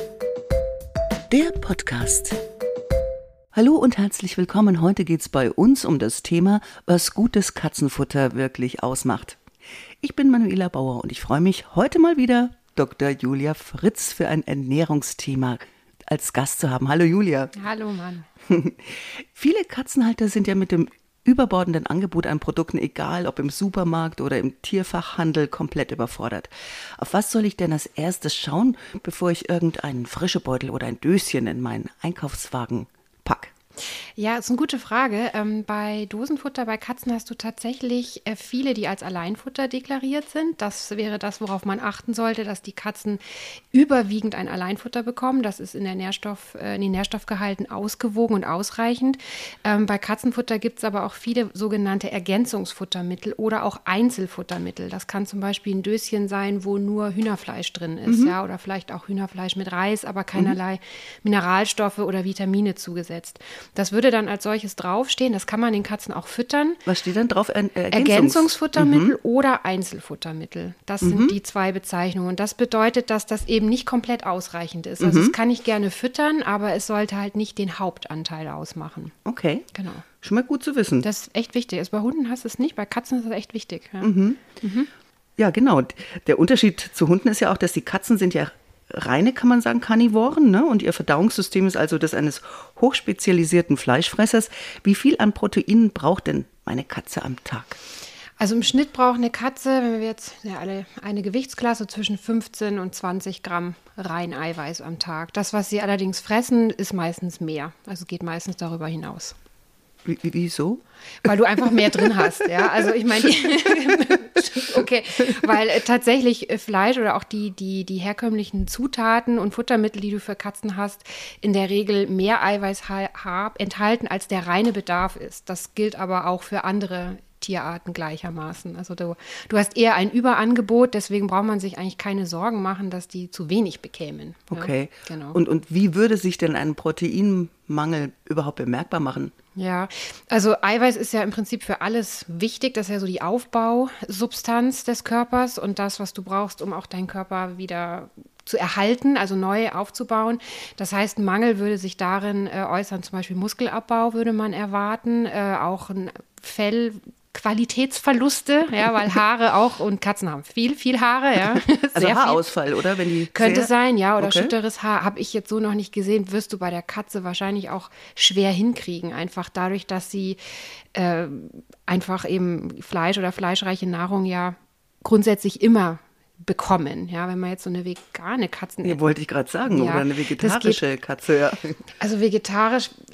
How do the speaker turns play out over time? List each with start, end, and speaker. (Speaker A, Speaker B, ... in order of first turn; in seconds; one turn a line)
Speaker A: 1.3-2.4
Speaker A: 3.5-9.4
Speaker A: 10.0-17.5
Speaker B: 17.5-18.3
Speaker A: 18.5-33.5
Speaker B: 34.2-43.2
Speaker B: 43.7-66.8
Speaker A: 58.1-58.3
Speaker A: 66.8-69.1
Speaker B: 67.9-79.1
Speaker A: 71.0-71.3
Speaker A: 75.0-75.3
Speaker A: 79.2-79.7
Speaker B: 79.7-80.1
Speaker A: 80.2-81.0
Speaker B: 81.0-84.9
Speaker A: 84.0-84.4
Speaker A: 85.4-97.8
Speaker B: 98.4-109.3
Speaker A: 110.0-110.8
Speaker B: 111.2-135.4
Speaker A: 134.5-139.3
Speaker B: 139.6-162.6
Speaker A: 161.9-164.5
Speaker B: 163.3-170.4
Speaker B: 170.9-179.0
Speaker A: 178.8-181.8
Speaker B: 179.7-180.8
Speaker B: 182.0-182.9